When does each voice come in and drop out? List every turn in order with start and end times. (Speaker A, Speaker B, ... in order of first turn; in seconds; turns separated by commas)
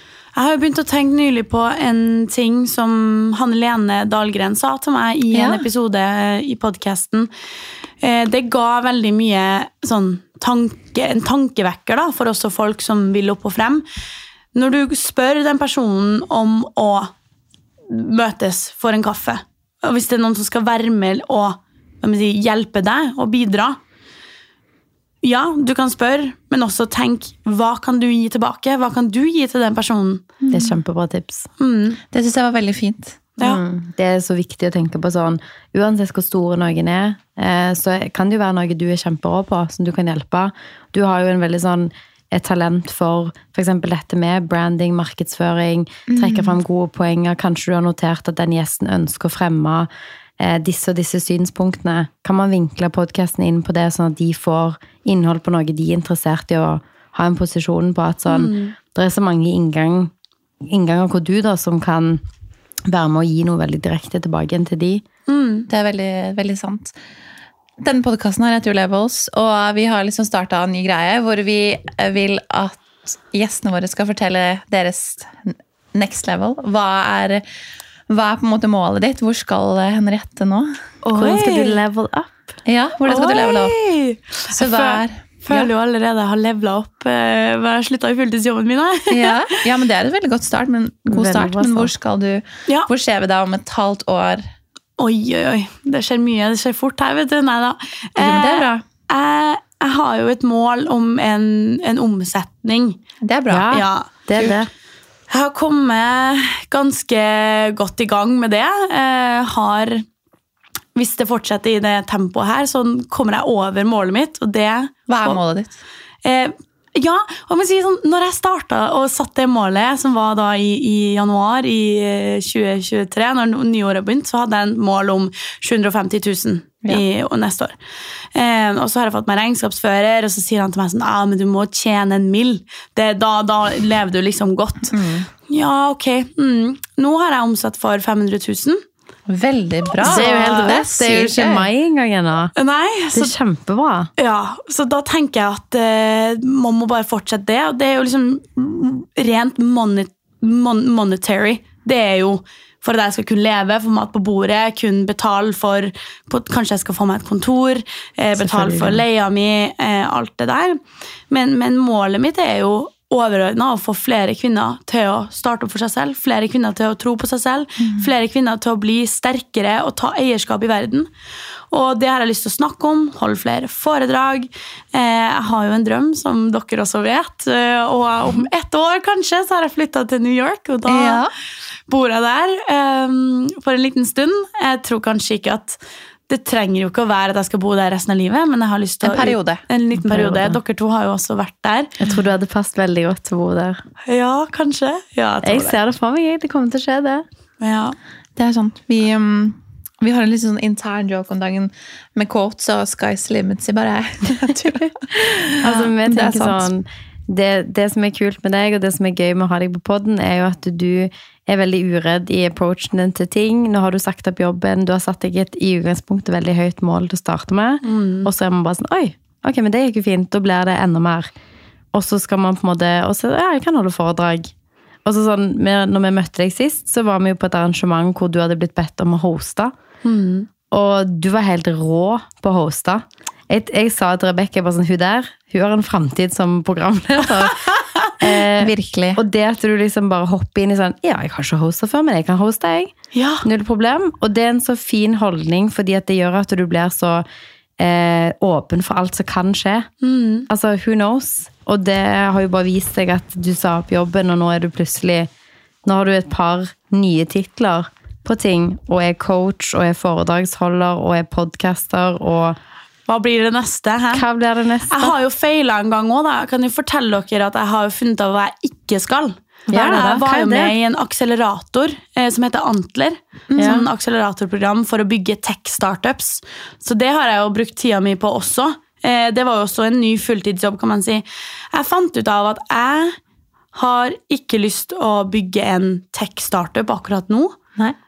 Speaker A: 0.3-7.3, Speaker B: 5.3-5.7, Speaker A: 8.0-13.8, Speaker A: 14.5-17.1, Speaker A: 17.9-23.8, Speaker A: 25.2-30.3, Speaker B: 30.4-30.8, Speaker C: 30.5-31.5, Speaker A: 31.6-32.0, Speaker B: 32.1-33.3, Speaker C: 33.4-49.9, Speaker B: 46.1-46.6, Speaker C: 50.4-62.2, Speaker A: 58.3-58.7, Speaker C: 62.9-65.0, Speaker A: 65.3-65.7, Speaker B: 65.7-66.9, Speaker B: 67.8-77.4, Speaker B: 78.1-80.8, Speaker A: 81.0-81.8, Speaker C: 81.1-82.5, Speaker B: 82.7-83.8, Speaker A: 83.0-89.6, Speaker B: 84.5-85.7, Speaker B: 89.1-94.4, Speaker C: 91.1-91.9, Speaker A: 95.0-103.0, Speaker B: 98.2-98.8, Speaker B: 103.2-104.6, Speaker C: 103.5-104.7, Speaker A: 103.7-104.1, Speaker A: 105.3-110.0, Speaker A: 110.9-115.4, Speaker B: 115.1-115.8, Speaker A: 116.2-127.8, Speaker A: 128.3-138.8, Speaker B: 134.9-135.2, Speaker B: 139.3-141.7, Speaker A: 139.9-140.8, Speaker C: 140.0-142.5, Speaker A: 142.6-143.3, Speaker C: 143.1-144.1, Speaker A: 144.2-171.1, Speaker C: 158.4-159.0, Speaker B: 167.8-168.1, Speaker A: 171.7-181.3, Speaker B: 180.9-181.3, Speaker A: 181.9-191.9, Speaker B: 189.0-189.6, Speaker C: 190.0-190.6, Speaker C: 192.0-193.8, Speaker A: 194.1-195.8, Speaker C: 195.4-197.2, Speaker A: 197.6-197.9, Speaker B: 198.3-206.7, Speaker C: 205.6-221.3, Speaker A: 217.8-218.3, Speaker C: 221.9-224.5, Speaker C: 225.0-229.7, Speaker A: 230.0-230.5, Speaker C: 230.7-247.2, Speaker B: 238.5-239.2, Speaker A: 243.1-243.4, Speaker C: 247.8-249.9, Speaker A: 250.0-250.5, Speaker C: 250.5-255.3, Speaker C: 255.8-262.6, Speaker A: 263.1-264.2, Speaker C: 264.1-265.1, Speaker A: 264.9-283.2, Speaker C: 269.7-270.7, Speaker B: 273.5-273.8, Speaker C: 273.6-273.9, Speaker A: 283.7-287.6